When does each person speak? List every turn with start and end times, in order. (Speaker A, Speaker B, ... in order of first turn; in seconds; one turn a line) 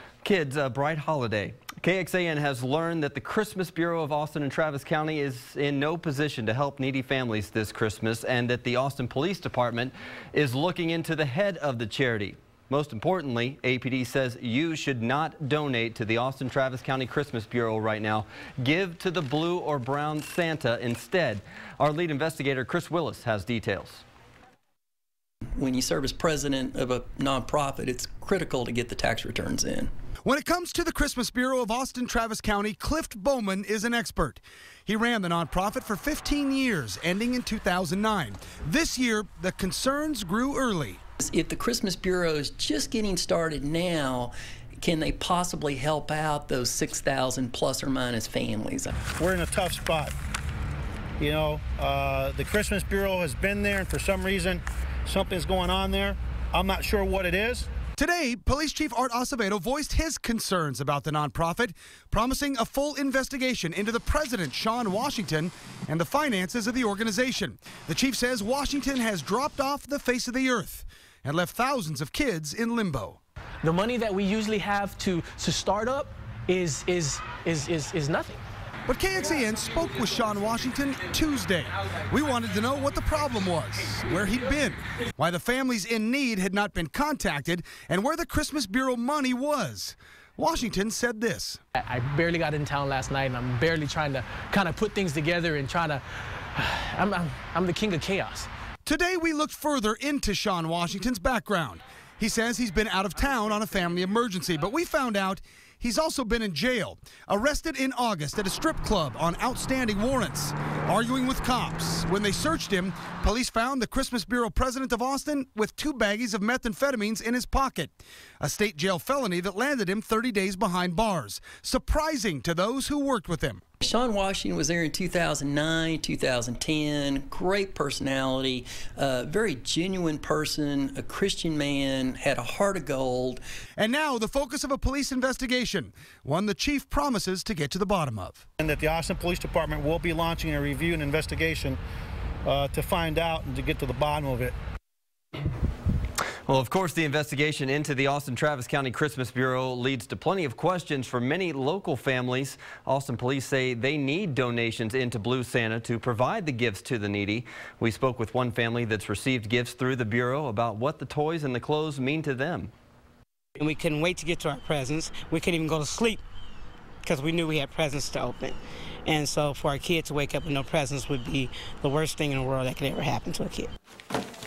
Speaker A: 0.2-24.0
Speaker B: 25.5-29.9
Speaker C: 30.2-41.0
Speaker B: 41.2-49.0
Speaker D: 49.1-50.1
Speaker D: 51.2-57.7
Speaker C: 58.0-73.2
Speaker E: 73.6-78.4
Speaker C: 78.9-91.6
Speaker E: 91.8-96.0
Speaker E: 96.5-98.5
Speaker C: 98.8-123.6
Speaker B: 123.8-133.4
Speaker C: 133.8-138.4
Speaker D: 138.6-141.8
Speaker D: 142.4-144.5
Speaker A: 146.5-162.7
Speaker F: 163.6-166.2
Speaker F: 167.1-168.5
Speaker F: 169.1-173.7